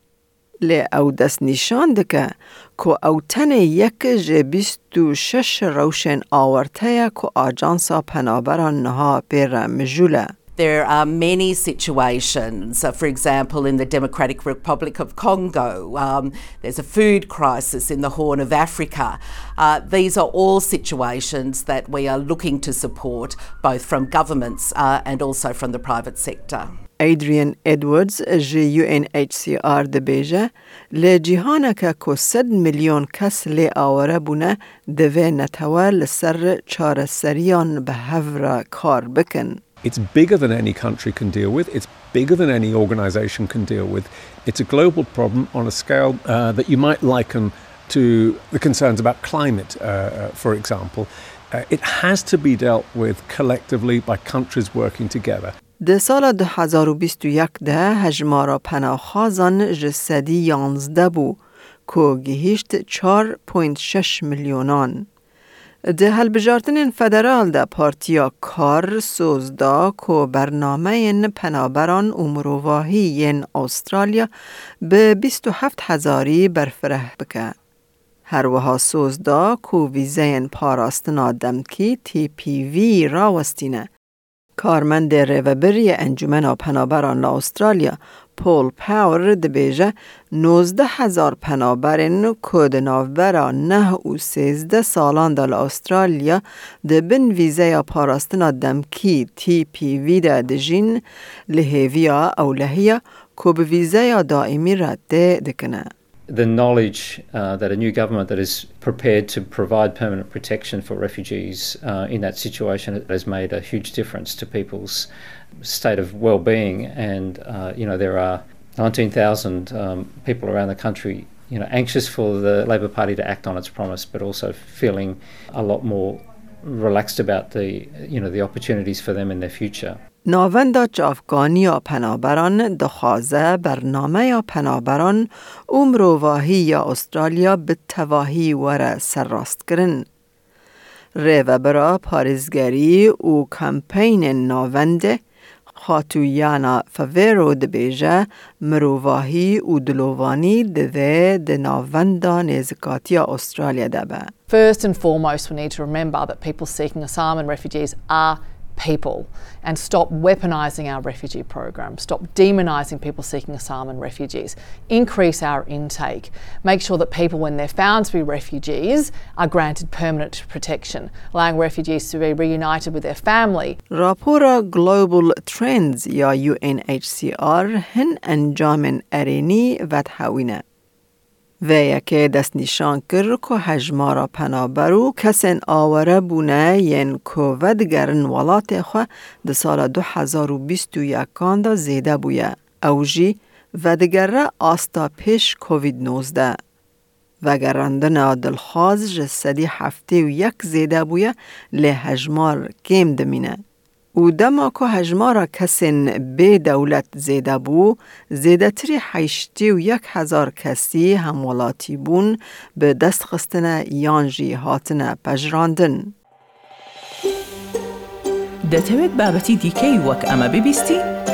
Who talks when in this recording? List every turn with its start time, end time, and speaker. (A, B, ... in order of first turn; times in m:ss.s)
0:00.6-0:10.3 A
0:10.6-0:26.7 B
0:27.0-0:39.6 A
0:39.8-0:55.5 C
0:55.8-1:05.1 A
1:05.9-1:14.3 A
1:14.8-1:17.5 A
1:18.3-1:23.9 A
1:24.6-1:45.9 A
1:46.3-1:55.1 D
1:55.6-2:10.0 D
2:10.3-2:20.1 A
2:21.2-2:25.2 A
2:25.8-2:34.3 A
2:34.5-2:53.8 E
2:53.9-3:00.6 A
3:01.6-3:16.6 A
3:17.4-3:23.6 A
3:24.2-3:36.1 A
3:38.7-3:41.1 F